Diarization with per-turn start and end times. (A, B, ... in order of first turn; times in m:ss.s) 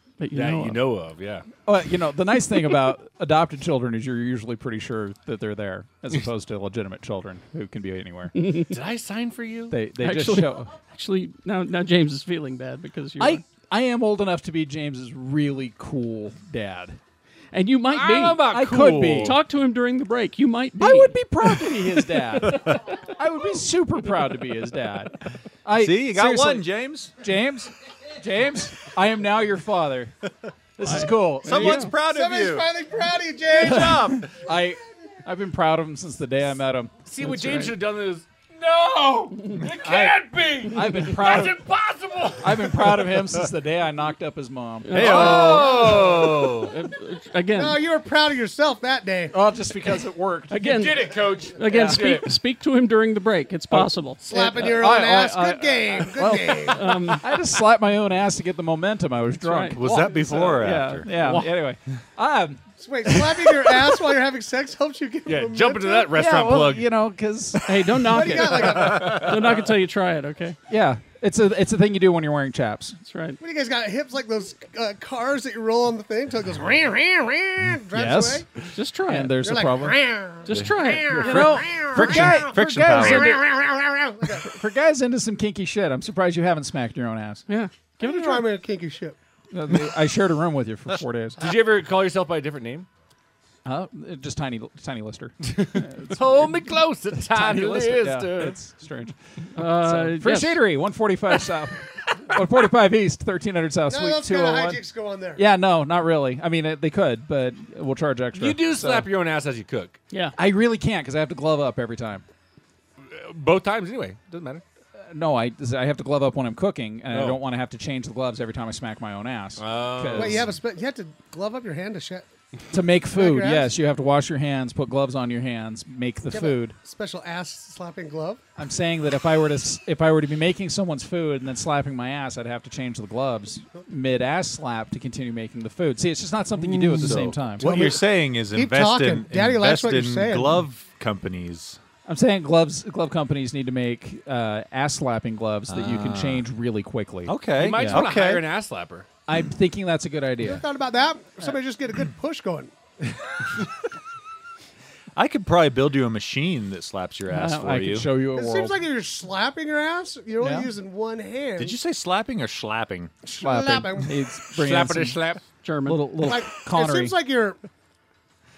0:00.2-0:00.8 A
0:00.3-0:01.5 B
0:01.7-0:08.3 C
0:08.4-0:08.7 A
0:08.7-0:09.8 B
0:09.7-0:10.7 C
0:10.0-0:13.4 A
0:13.2-0:17.0 C
0:17.5-0:18.5 A
0:17.9-0:19.4 B
0:18.5-0:19.4 C
0:19.2-0:21.6 A
0:20.8-0:30.2 C
0:22.4-0:22.8 A
0:25.8-0:27.1 D
0:30.8-0:31.9 C
0:30.8-0:31.9 A
0:30.9-0:32.7 D
0:31.9-0:34.2 E
0:33.6-0:34.3 D
0:33.6-0:37.7 C
0:37.1-0:43.0 B
0:39.8-0:41.6 C
0:42.4-0:45.3 C
0:44.8-0:46.0 A
0:44.9-0:46.7 B
0:45.0-0:46.5 E
0:45.3-0:45.6 D
0:46.6-0:47.8 A
0:47.5-0:49.4 E
0:49.3-0:52.0 C
0:50.5-0:54.8 A
0:50.7-0:52.3 B
0:53.7-1:03.8 C
0:54.2-0:57.0 E
0:56.2-0:57.2 A
0:59.4-1:01.5 A
0:59.7-1:01.1 D
1:02.8-1:06.1 E
1:05.3-1:06.9 B
1:06.1-1:08.8 C
1:07.7-1:10.6 A
1:08.0-1:09.4 E
1:10.7-1:13.0 C
1:13.0-1:13.4 A
1:13.4-1:18.5 E
1:17.9-1:18.5 C
1:18.7-1:19.4 A
1:19.0-1:20.0 C
1:19.4-1:24.5 E
1:20.4-1:21.6 A
1:21.2-1:23.4 C
1:21.9-1:23.4 D
1:24.4-1:27.4 C
1:27.5-1:28.5 A
1:28.0-1:29.2 E
1:29.5-1:31.4 C
1:31.4-1:32.9 B
1:33.6-1:44.8 C
1:35.4-1:38.6 B
1:39.6-1:40.6 A
1:43.9-1:45.4 E
1:45.4-1:49.1 C
1:48.4-1:50.0 B
1:50.4-1:52.2 C
1:53.1-1:54.6 B
1:55.0-2:00.5 C
1:57.1-1:57.4 B
1:59.6-2:00.4 B
2:00.1-2:02.3 E
2:02.7-2:06.8 C
2:03.1-2:03.7 E
2:06.3-2:08.4 E
2:08.6-2:17.6 C
2:16.8-2:20.6 E
2:17.0-2:21.8 D
2:22.1-2:28.1 C
2:25.7-2:26.4 D
2:27.3-2:28.5 D
2:27.6-2:29.1 B
2:29.3-2:30.6 C
2:30.4-2:32.7 E
2:35.2-2:38.1 D
2:37.3-2:38.8 C
2:38.3-2:41.8 E
2:40.4-2:40.7 C
2:41.6-2:43.1 D
2:43.2-2:44.2 E
2:43.4-2:45.2 C
2:44.5-2:45.4 B
2:45.6-2:46.0 A
2:45.9-2:47.2 C
2:46.2-2:47.6 E